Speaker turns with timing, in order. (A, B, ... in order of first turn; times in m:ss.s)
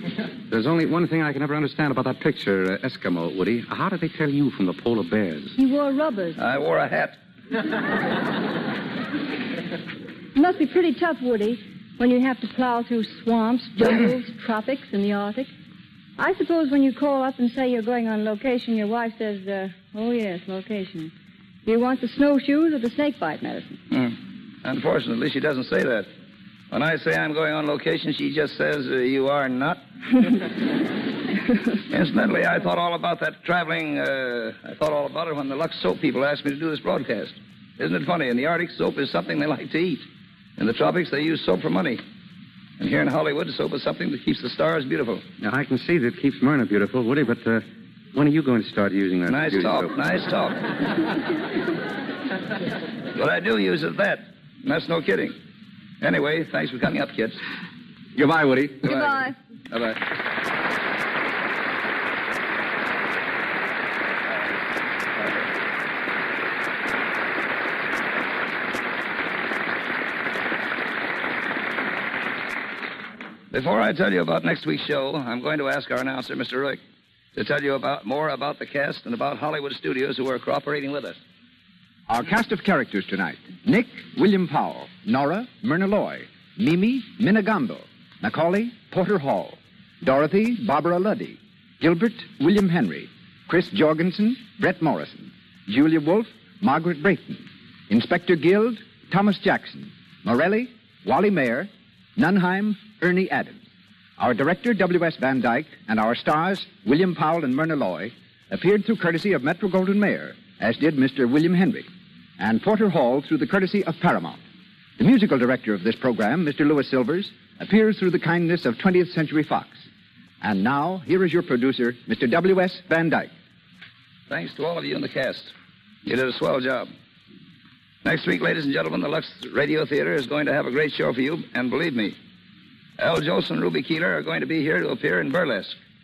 0:00.5-0:05.6 A
0:05.6-0:06.4 B
0:06.4-0:07.2 C
0:10.4-0:15.5 B
0:16.2-0:21.1 B
0:21.7-0:23.8 B
0:23.9-0:26.1 C
0:26.7-0:29.8 C
0:31.9-0:40.1 C
0:40.6-0:42.0 C
0:42.8-0:45.2 C
0:45.4-0:50.0 A
0:49.3-0:50.6 C
0:53.2-0:55.4 C
0:56.0-0:57.4 C
0:58.2-0:58.9 A
0:58.8-1:00.0 C
0:58.9-0:59.3 B
1:13.5-1:16.8 C
1:17.4-1:21.2 C
1:22.1-1:43.6 D
1:44.2-1:51.9 D
1:52.4-1:54.4 D
1:55.0-1:59.9 D
2:00.4-2:03.3 D
2:04.3-2:05.5 C
2:06.1-2:06.9 C
2:08.0-2:12.2 C
2:13.0-2:15.8 C